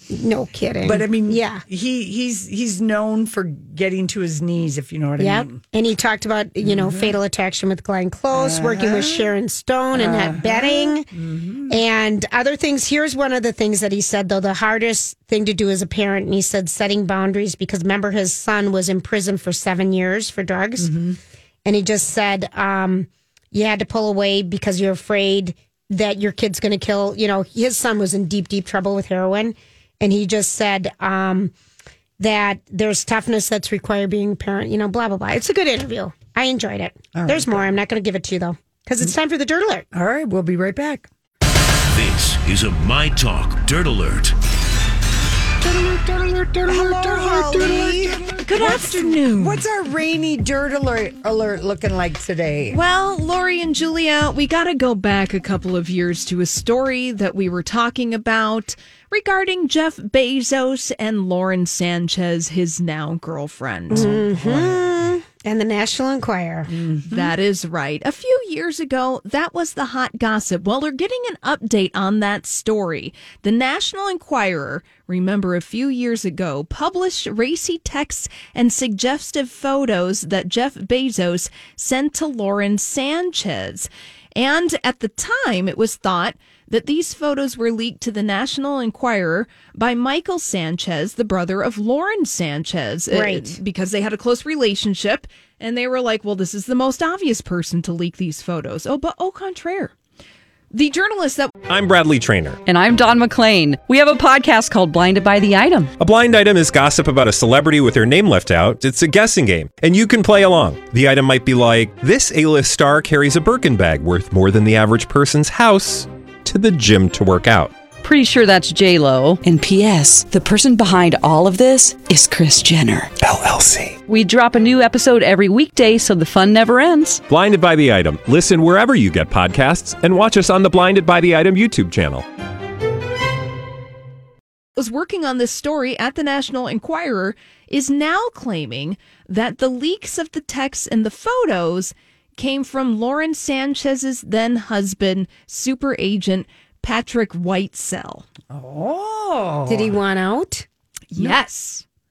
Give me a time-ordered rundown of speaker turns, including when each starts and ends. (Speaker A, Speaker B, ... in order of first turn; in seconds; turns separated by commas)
Speaker A: 0.1-1.6, Speaker B: 0.8-5.6, Speaker A: 5.2-11.1, Speaker B: 6.6-7.2, Speaker B: 8.3-9.3, Speaker B: 9.9-11.8, Speaker A: 11.7-20.9, Speaker B: 20.8-21.2, Speaker A: 21.6-31.5, Speaker A: 32.2-39.9, Speaker B: 37.1-37.7, Speaker B: 39.9-41.1, Speaker C: 41.9-44.4, Speaker A: 45.7-48.3, Speaker B: 46.0-52.8, Speaker D: 48.4-49.6, Speaker D: 52.7-64.2, Speaker B: 63.9-65.0, Speaker A: 63.9-66.7, Speaker B: 66.7-67.3, Speaker D: 67.1-99.9, Speaker A: 93.1-93.6, Speaker D: 100.7-101.6, Speaker E: 101.7-102.6, Speaker F: 102.7-105.9, Speaker E: 106.0-117.7, Speaker F: 118.0-123.1, Speaker E: 123.2-124.0, Speaker F: 124.1-127.2, Speaker E: 127.3-132.2, Speaker D: 134.8-148.3, Speaker B: 148.5-150.0, Speaker A: 149.7-150.7, Speaker D: 151.1-151.8